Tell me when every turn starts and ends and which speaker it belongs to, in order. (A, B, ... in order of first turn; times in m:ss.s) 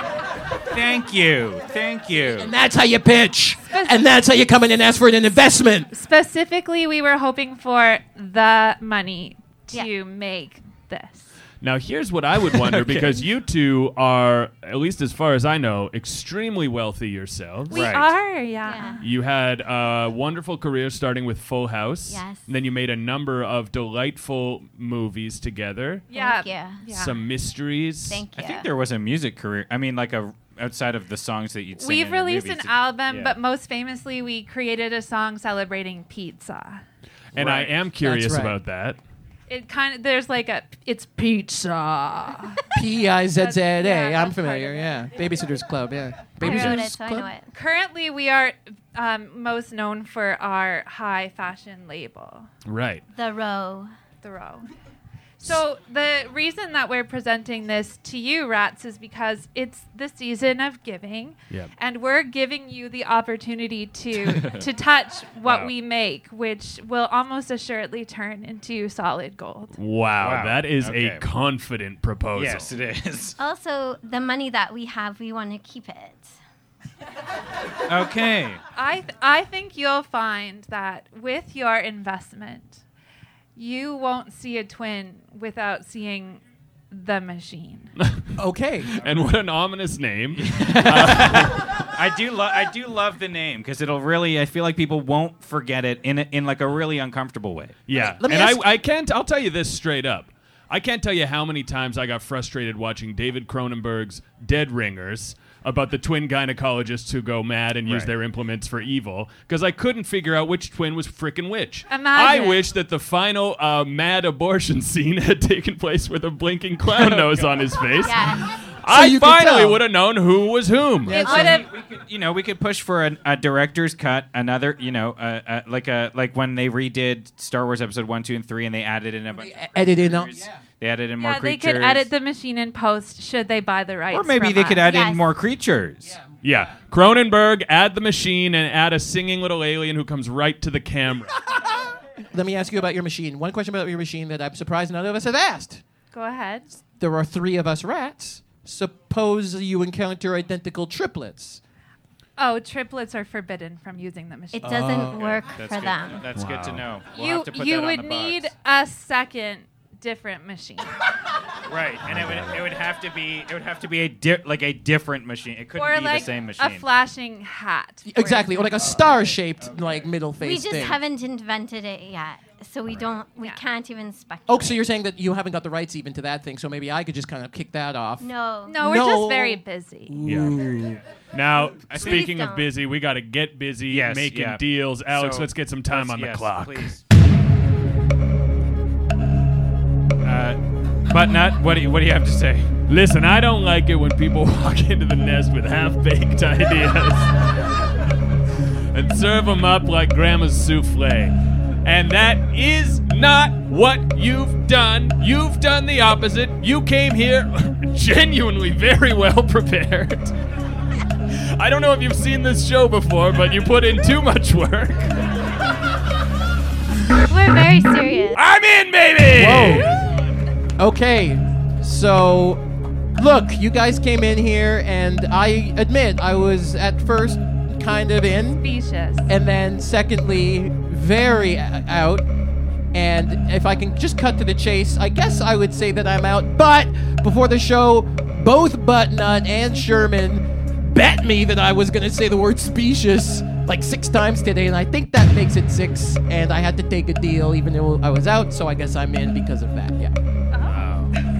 0:00.7-0:02.5 A
0:02.4-0:05.9 B
0:03.7-0:04.1 C
0:05.9-0:11.3 C
0:11.6-0:17.8 D
0:12.6-0:13.1 A
0:17.7-0:19.0 C
0:17.7-0:18.1 A
0:18.6-0:19.0 E
0:19.0-0:26.1 D
0:22.1-0:22.4 E
0:26.1-0:27.2 C
0:26.1-0:26.9 E
0:26.9-0:28.3 D
0:28.1-0:28.7 E
0:28.4-0:33.4 A
0:31.8-0:36.8 C
0:37.3-0:39.0 D
0:37.4-0:37.7 A
0:38.0-0:38.6 B
0:39.5-0:42.6 C
0:42.7-0:47.3 B
0:43.4-0:45.1 C
0:46.4-0:47.5 E
0:46.4-0:46.8 D
0:47.5-0:52.5 C
0:52.6-0:53.0 D
0:53.1-0:53.9 E
0:54.2-0:54.7 C
0:55.4-1:09.8 C
1:04.2-1:04.6 A
1:05.4-1:05.7 A
1:09.8-1:12.7 D
1:10.2-1:11.2 A
1:12.4-1:13.4 A
1:13.4-1:16.4 E
1:17.9-1:18.6 A
1:18.8-1:22.8 C
1:23.6-1:27.9 C
1:28.0-1:28.3 D
1:28.4-1:28.9 B
1:28.9-1:31.7 D
1:30.4-1:37.8 A
1:37.9-2:01.2 D
1:38.0-1:38.6 B
1:47.8-1:48.1 A
1:51.9-1:52.7 C
1:56.9-1:57.7 A
1:58.0-1:58.5 E
1:58.9-1:59.8 B
2:01.0-2:01.6 B
2:01.1-2:01.7 C
2:01.2-2:12.1 A
2:09.4-2:10.6 B
2:11.2-2:14.8 C
2:14.1-2:16.2 A
2:14.8-2:15.3 E
2:16.4-2:21.4 D
2:22.3-2:25.8 B
2:26.1-2:26.7 C
2:27.0-2:31.6 B
2:32.4-2:34.8 C
2:34.5-2:36.2 E
2:34.6-2:35.3 B
2:35.1-2:38.5 A
2:36.3-2:36.8 D
2:37.1-2:40.9 C
2:41.7-2:46.9 A
2:42.1-2:42.6 D
2:45.7-2:48.8 C
2:48.1-2:51.0 B
2:50.4-2:54.8 E
2:54.5-3:01.0 B
2:58.2-2:58.9 E
2:58.7-3:00.2 C
3:00.2-3:00.6 D
3:01.3-3:07.0 D
3:01.9-3:02.7 E
3:02.0-3:02.3 A
3:03.9-3:07.0 A
3:10.2-3:10.6 A
3:11.1-3:12.7 A
3:12.9-3:17.3 D
3:18.9-3:30.4 D
3:31.3-3:35.2 D
3:37.3-3:38.4 E
3:38.3-3:40.0 D
3:39.3-3:40.0 B
3:40.8-3:42.6 B
3:43.2-3:48.6 B
3:48.6-3:49.3 C
3:49.3-3:52.2 B
3:52.9-4:10.1 B
4:10.5-4:10.8 C
4:10.7-4:11.1 A